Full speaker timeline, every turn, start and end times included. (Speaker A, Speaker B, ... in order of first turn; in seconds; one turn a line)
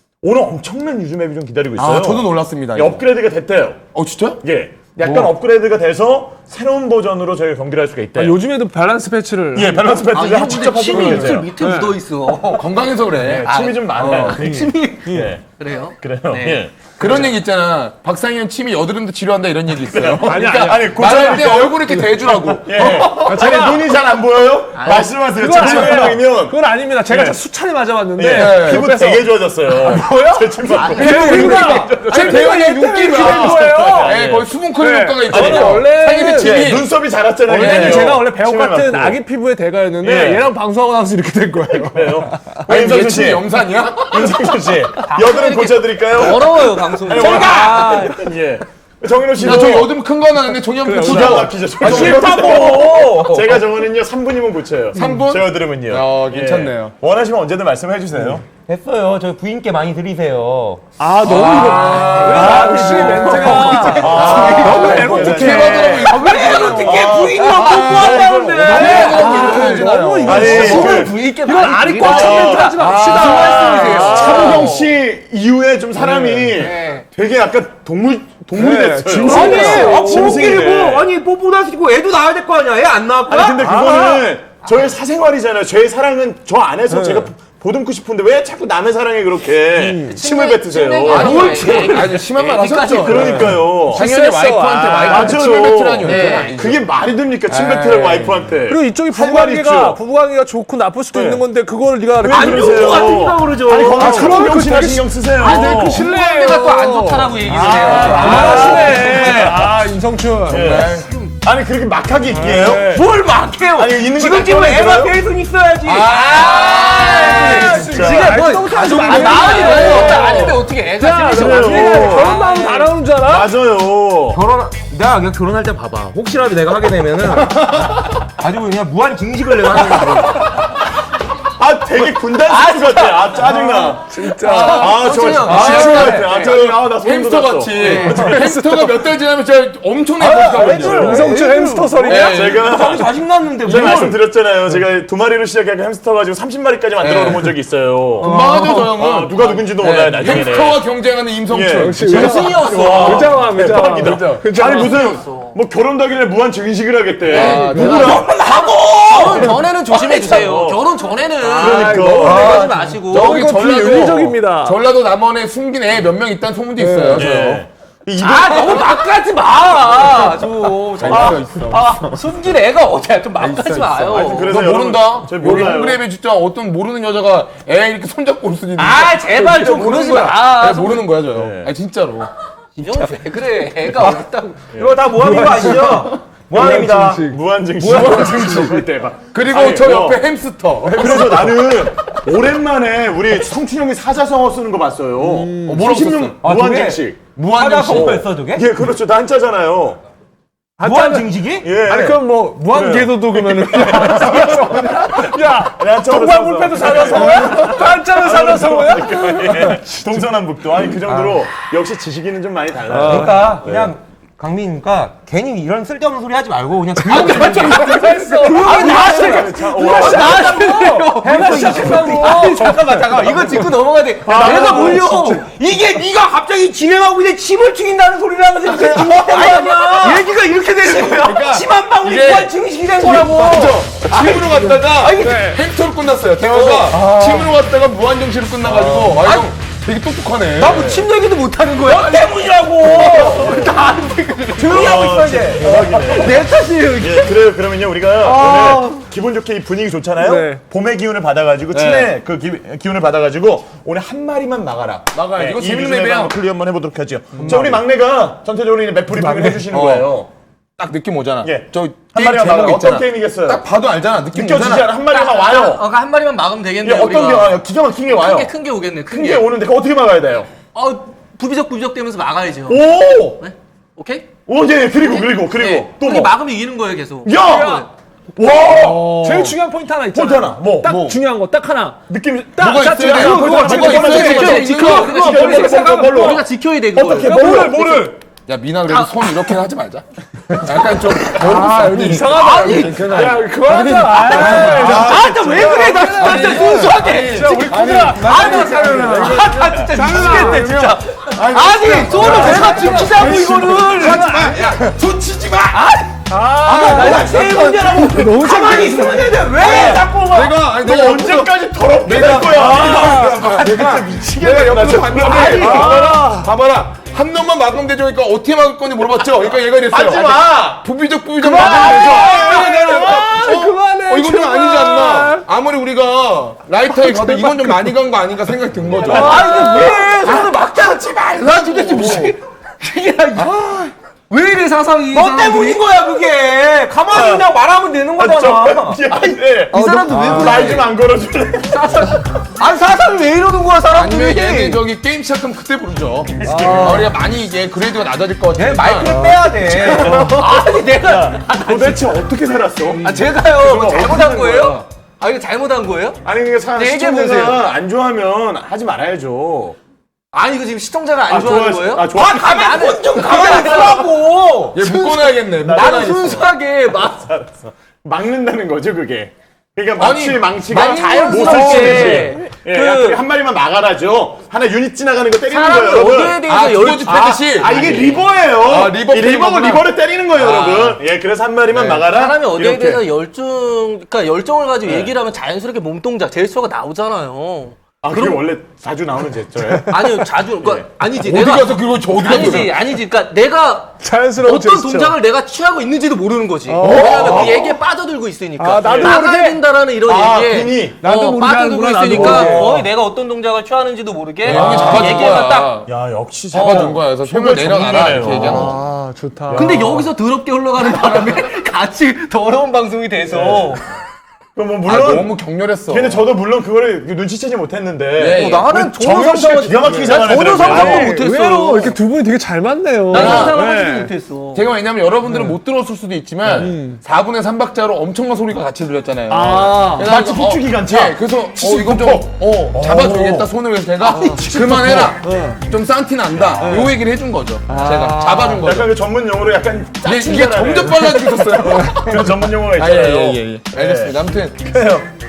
Speaker A: 0.2-3.8
Speaker B: 1.8-3.0
Speaker B: 3.9-4.4
Speaker A: 4.4-8.4
Speaker C: 8.1-9.9
Speaker A: 9.5-11.5
Speaker D: 10.1-12.7
Speaker C: 10.9-12.0
Speaker B: 12.5-13.5
Speaker A: 13.2-15.4
Speaker D: 13.3-16.6
Speaker C: 14.1-15.3
Speaker A: 16.0-17.4
Speaker B: 17.0-23.1
Speaker A: 19.8-26.6
Speaker C: 20.2-23.9
Speaker D: 23.0-23.7
Speaker D: 24.7-26.0
Speaker C: 24.9-34.2
Speaker A: 27.1-27.4
Speaker A: 28.1-31.8
Speaker B: 28.2-29.0
Speaker D: 29.8-32.5
Speaker B: 31.2-36.9
Speaker A: 33.1-34.5
Speaker C: 34.8-36.8
Speaker A: 35.3-39.2
Speaker C: 37.5-42.6
Speaker B: 37.5-38.2
Speaker A: 40.0-40.5
Speaker A: 41.9-43.5
Speaker B: 42.7-44.4
Speaker A: 44.0-49.9
Speaker D: 45.0-48.2
Speaker E: 47.1-47.7
Speaker C: 47.1-48.2
Speaker B: 47.2-47.8
Speaker B: 49.4-52.4
Speaker C: 50.8-53.5
Speaker A: 51.0-58.5
Speaker E: 51.8-53.6
Speaker B: 54.9-56.9
Speaker E: 58.2-60.9
Speaker C: 61.0-67.0
Speaker B: 61.2-70.9
Speaker D: 62.3-65.3
Speaker A: 63.9-65.9
Speaker E: 64.1-69.2
Speaker D: 66.0-74.8
Speaker A: 66.7-69.1
Speaker C: 68.6-74.7
Speaker A: 70.2-71.2
Speaker A: 72.0-72.8
Speaker B: 72.3-74.7
Speaker A: 73.5-81.1
Speaker C: 76.0-76.5
Speaker D: 76.5-77.0
Speaker C: 78.5-80.6
Speaker E: 79.2-83.7
Speaker A: 83.3-91.8
Speaker C: 83.4-84.2
Speaker C: 86.9-87.3
Speaker C: 89.7-90.2
Speaker D: 90.0-93.5
Speaker B: 91.0-96.8
Speaker A: 93.0-94.0
Speaker C: 93.2-95.6
Speaker A: 95.0-100.0
Speaker D: 96.0-96.6
Speaker B: 97.5-98.4
Speaker C: 98.7-110.8
Speaker A: 101.1-101.4
Speaker A: 102.2-106.0
Speaker E: 102.3-104.4
Speaker D: 105.4-109.5
Speaker E: 107.6-108.1
Speaker B: 107.6-109.5
Speaker A: 108.0-109.7
Speaker A: 110.5-113.0
Speaker B: 110.5-111.1
Speaker D: 110.8-111.3
Speaker C: 112.3-113.1
Speaker E: 112.9-116.2
Speaker A: 113.7-115.2
Speaker B: 115.8-118.1
Speaker D: 116.0-122.9
Speaker C: 117.0-123.5
Speaker A: 117.8-118.4
Speaker B: 118.7-120.6
Speaker A: 121.3-122.4
Speaker A: 123.2-124.4
Speaker E: 124.3-127.9
Speaker E: 128.4-130.6
Speaker A: 131.6-138.5
Speaker D: 132.4-136.6
Speaker C: 133.7-135.2
Speaker B: 134.5-141.3
Speaker D: 137.7-138.3
Speaker C: 138.0-139.0
Speaker E: 140.2-144.2
Speaker A: 140.5-141.3
Speaker C: 140.8-142.4
Speaker B: 142.0-142.8
Speaker A: 142.1-150.8
Speaker B: 147.0-147.5
Speaker B: 148.2-152.4
Speaker E: 148.2-148.9
Speaker A: 151.5-158.4
Speaker C: 151.7-154.9
Speaker D: 152.0-153.4
Speaker B: 154.0-154.4
Speaker D: 154.7-155.5
Speaker B: 157.3-158.3
Speaker D: 157.3-163.4
Speaker C: 157.7-158.0
Speaker E: 157.9-159.5
Speaker A: 159.2-160.8
Speaker B: 161.5-167.6
Speaker A: 161.6-162.7
Speaker C: 161.6-164.8
Speaker C: 166.8-167.3
Speaker A: 167.1-168.9
Speaker D: 168.2-174.7
Speaker B: 171.0-171.9
Speaker A: 171.0-171.8
Speaker B: 173.4-182.3
Speaker A: 174.1-176.0
Speaker D: 178.8-181.1
Speaker A: 181.3-181.7
Speaker D: 182.8-184.8
Speaker A: 184.7-185.7
Speaker E: 184.7-188.8
Speaker C: 185.2-186.0
Speaker B: 185.3-186.1
Speaker C: 186.5-187.2
Speaker A: 186.5-190.2
Speaker B: 187.8-191.7
Speaker A: 190.8-200.0
Speaker C: 195.2-195.9
Speaker B: 195.7-196.3
Speaker E: 196.4-198.7
Speaker B: 197.4-198.2
Speaker C: 200.8-209.8
Speaker E: 200.8-201.7
Speaker A: 201.6-213.9
Speaker E: 211.0-211.4
Speaker C: 212.9-213.6
Speaker E: 213.0-220.7
Speaker B: 217.0-218.9
Speaker C: 217.1-223.5
Speaker D: 217.2-225.5
Speaker A: 218.6-220.8
Speaker E: 221.2-235.4
Speaker A: 224.2-225.0
Speaker C: 224.3-225.4
Speaker D: 228.6-231.4
Speaker B: 231.2-241.1
Speaker C: 235.2-235.6
Speaker E: 236.4-237.5
Speaker E: 238.7-239.2
Speaker D: 239.2-239.5
Speaker D: 240.6-245.1
Speaker E: 241.8-243.7
Speaker B: 241.9-243.3
Speaker E: 244.5-246.5
Speaker A: 244.6-260.3
Speaker D: 245.9-247.4
Speaker E: 248.2-249.0
Speaker C: 250.2-250.6
Speaker B: 251.7-252.1
Speaker B: 255.1-256.4
Speaker C: 257.4-257.6
Speaker E: 257.4-257.8
Speaker C: 259.1-259.7
Speaker B: 259.7-260.1
Speaker B: 260.8-264.9
Speaker A: 261.4-263.6
Speaker A: 264.3-265.9
Speaker D: 265.1-267.6
Speaker A: 266.8-268.5
Speaker D: 268.1-269.5
Speaker A: 269.1-270.5
Speaker D: 270.7-274.3
Speaker A: 272.7-273.4
Speaker A: 274.5-276.3
Speaker D: 275.0-277.8
Speaker A: 277.2-279.5
Speaker C: 277.3-277.9
Speaker C: 278.7-282.0
Speaker B: 278.8-279.4
Speaker A: 280.1-281.0
Speaker B: 280.8-281.2
Speaker A: 282.1-288.1
Speaker C: 282.6-286.4
Speaker B: 282.6-285.7
Speaker D: 283.9-287.6
Speaker C: 287.1-288.2
Speaker B: 288.5-303.0
Speaker D: 288.9-289.6
Speaker C: 291.2-300.9
Speaker D: 292.2-293.5
Speaker D: 294.2-297.5
Speaker A: 294.3-295.8
Speaker D: 298.1-304.3
Speaker E: 298.4-299.6
Speaker A: 301.4-303.2
Speaker E: 301.4-304.6
Speaker C: 302.2-304.8
Speaker B: 303.6-304.9
Speaker A: 304.2-305.8
Speaker D: 305.7-307.8
Speaker C: 306.3-309.5
Speaker E: 306.6-310.5
Speaker B: 306.6-308.1
Speaker A: 309.4-316.4
Speaker B: 309.5-329.6
Speaker C: 312.6-313.4
Speaker E: 313.4-313.9
Speaker E: 315.2-315.6
Speaker C: 315.6-316.5
Speaker A: 319.9-320.8
Speaker C: 321.4-325.4
Speaker A: 321.5-323.4
Speaker D: 327.0-327.3
Speaker A: 328.9-329.5
Speaker D: 329.0-335.8
Speaker E: 329.1-330.6
Speaker C: 329.1-330.3
Speaker B: 331.4-332.3
Speaker E: 335.1-339.0
Speaker A: 337.1-337.5
Speaker A: 338.1-342.1
Speaker C: 339.7-340.7
Speaker D: 339.7-340.9
Speaker E: 340.1-340.8
Speaker D: 341.7-342.7
Speaker E: 342.6-344.8
Speaker D: 343.8-344.1
Speaker B: 343.9-349.1
Speaker A: 346.4-347.1
Speaker C: 346.4-346.9
Speaker E: 346.6-347.0
Speaker E: 348.6-350.4
Speaker D: 349.7-352.1
Speaker A: 349.8-350.5
Speaker A: 351.0-354.8
Speaker D: 353.0-356.2
Speaker A: 356.2-359.8
Speaker D: 356.8-357.6
Speaker D: 360.3-367.3
Speaker A: 361.3-362.9
Speaker E: 362.1-364.8
Speaker A: 363.4-363.8
Speaker B: 364.7-366.5
Speaker A: 367.2-376.4
Speaker B: 370.0-372.3
Speaker D: 370.7-373.2
Speaker D: 375.5-378.2
Speaker B: 376.3-379.9
Speaker A: 377.5-383.0
Speaker D: 380.4-381.0
Speaker B: 381.7-382.1
Speaker D: 381.9-388.4
Speaker A: 388.0-390.1
Speaker C: 389.8-390.1
Speaker D: 389.9-405.8
Speaker B: 391.1-392.8
Speaker C: 394.0-395.2
Speaker C: 396.7-397.5
Speaker B: 396.8-397.7
Speaker A: 396.8-397.7
Speaker C: 398.6-399.6
Speaker A: 400.0-401.0
Speaker C: 401.0-402.8
Speaker A: 402.1-402.9
Speaker B: 404.4-405.9
Speaker A: 404.4-408.8
Speaker D: 406.5-406.9
Speaker B: 406.5-408.8
Speaker D: 408.2-408.7
Speaker C: 408.2-409.9
Speaker A: 409.5-410.1
Speaker D: 409.5-413.9
Speaker A: 413.3-413.8
Speaker A: 414.6-415.4
Speaker B: 414.9-416.2
Speaker A: 415.9-421.1
Speaker B: 418.2-418.7
Speaker D: 418.3-421.9
Speaker C: 419.7-424.1
Speaker D: 423.1-424.6
Speaker B: 423.1-423.6
Speaker B: 424.5-438.9
Speaker C: 425.3-425.5
Speaker A: 426.4-426.7
Speaker C: 426.5-427.0
Speaker C: 429.3-430.1
Speaker A: 430.0-433.5
Speaker A: 434.1-435.1
Speaker C: 434.1-434.5
Speaker C: 435.2-435.6
Speaker A: 436.5-436.9
Speaker C: 437.7-438.6
Speaker A: 438.6-444.2
Speaker B: 440.0-445.0
Speaker A: 444.7-445.1